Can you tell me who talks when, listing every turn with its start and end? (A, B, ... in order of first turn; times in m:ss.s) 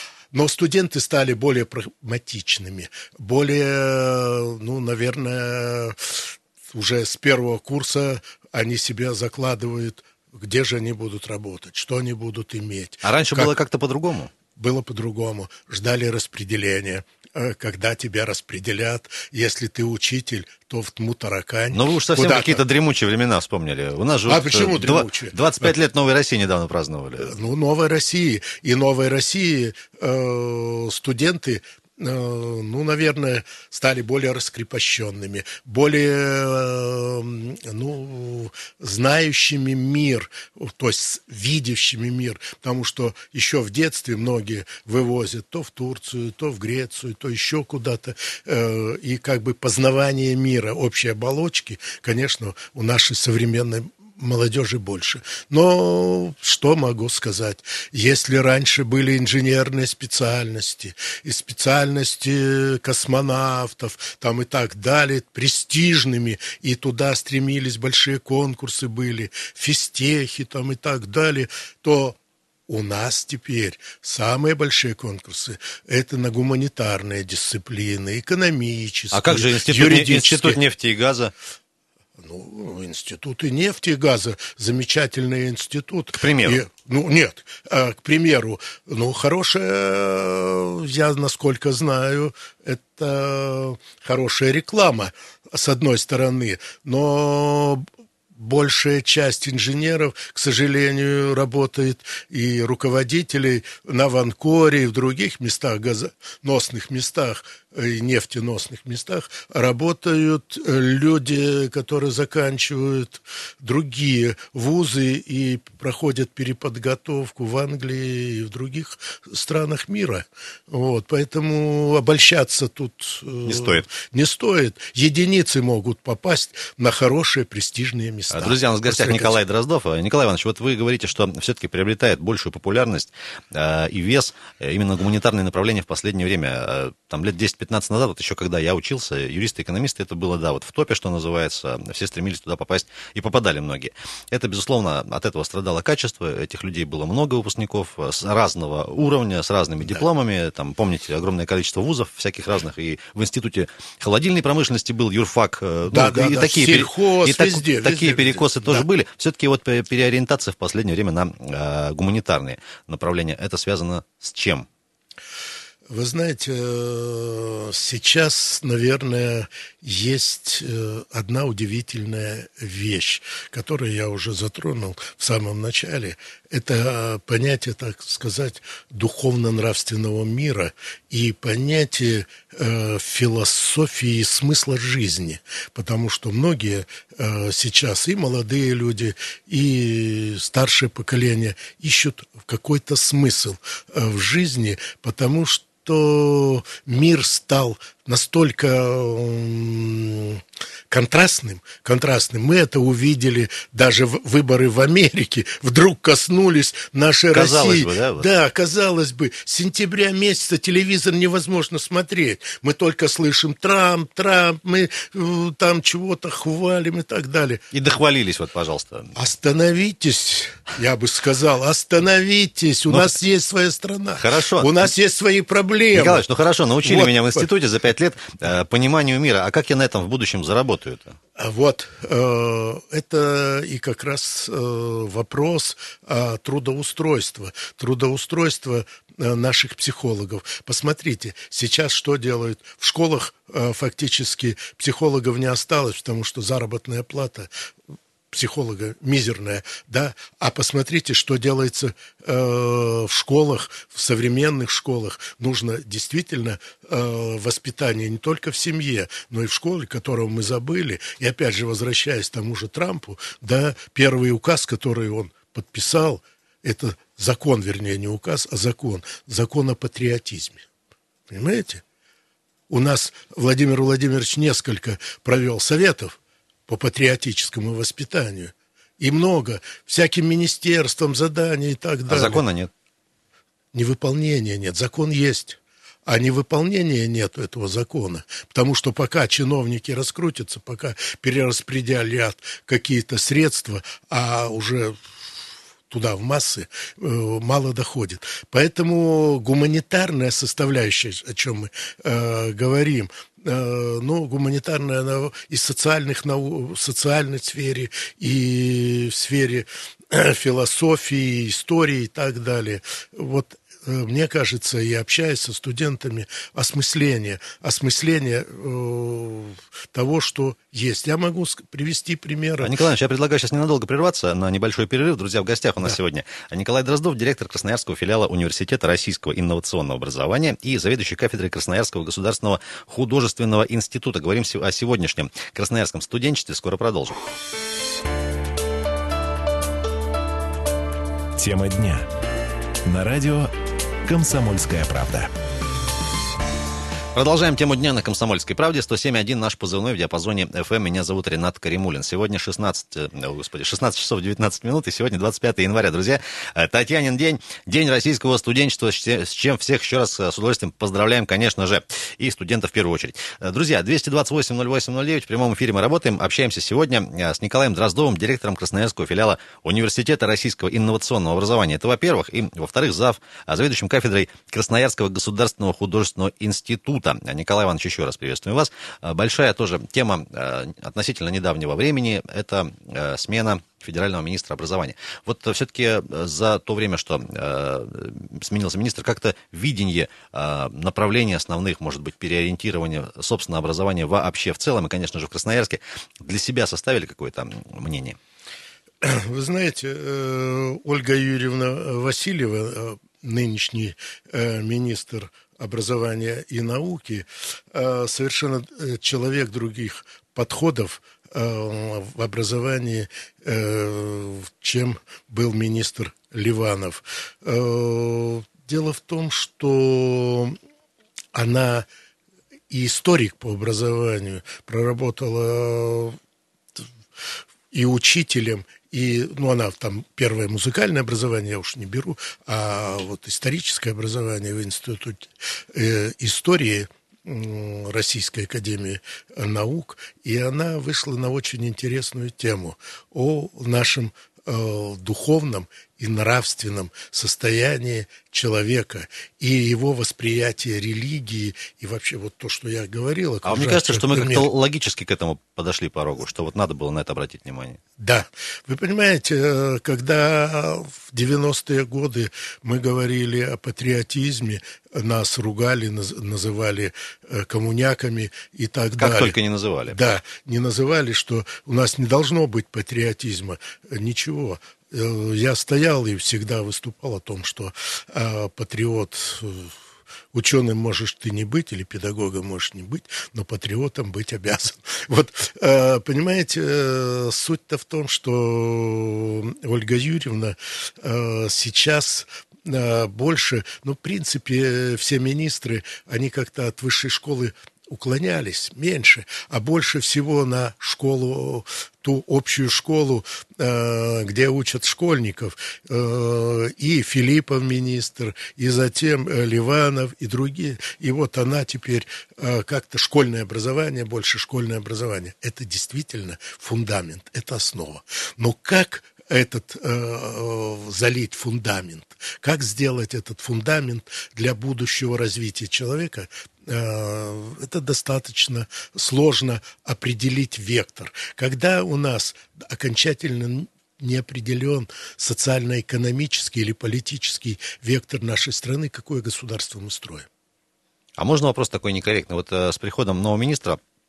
0:00.3-0:13.5 A
0:13.0-0:14.3 B
0:14.6-0:22.6 A
0:21.7-0:27.3 B
0:24.3-0:25.7 A
0:27.2-1:20.6 A
1:19.1-1:21.3 B
1:22.2-2:09.4 A
1:26.2-1:26.6 B
2:03.4-2:03.8 B
2:08.3-2:44.7 B
2:35.9-2:38.8 A
2:45.9-3:37.6 A
3:27.3-3:28.3 B
3:37.7-3:39.1 B
3:39.2-3:46.2 A
3:44.2-3:44.9 B
3:45.9-3:51.2 B
3:46.8-3:47.5 A
3:51.4-4:07.5 A
4:08.3-4:30.7 A
4:31.3-4:31.8 A
4:32.7-4:36.2 A
4:36.7-4:42.4 A
4:42.1-4:42.7 B
4:43.7-4:55.0 A
4:55.9-5:22.7 A
5:22.6-5:37.2 B
5:41.4-5:42.1 C
5:42.9-5:43.5 C
5:44.0-5:45.3 C
5:47.2-6:38.2 B
6:39.0-7:00.6 A
7:01.3-7:01.9 A
7:02.7-7:06.2 A
7:07.7-7:34.5 A
7:33.4-7:37.8 B
7:38.0-7:49.4 A
7:49.0-7:50.0 B
7:49.9-7:59.7 A
8:00.3-9:00.3 A
9:01.2-9:03.8 B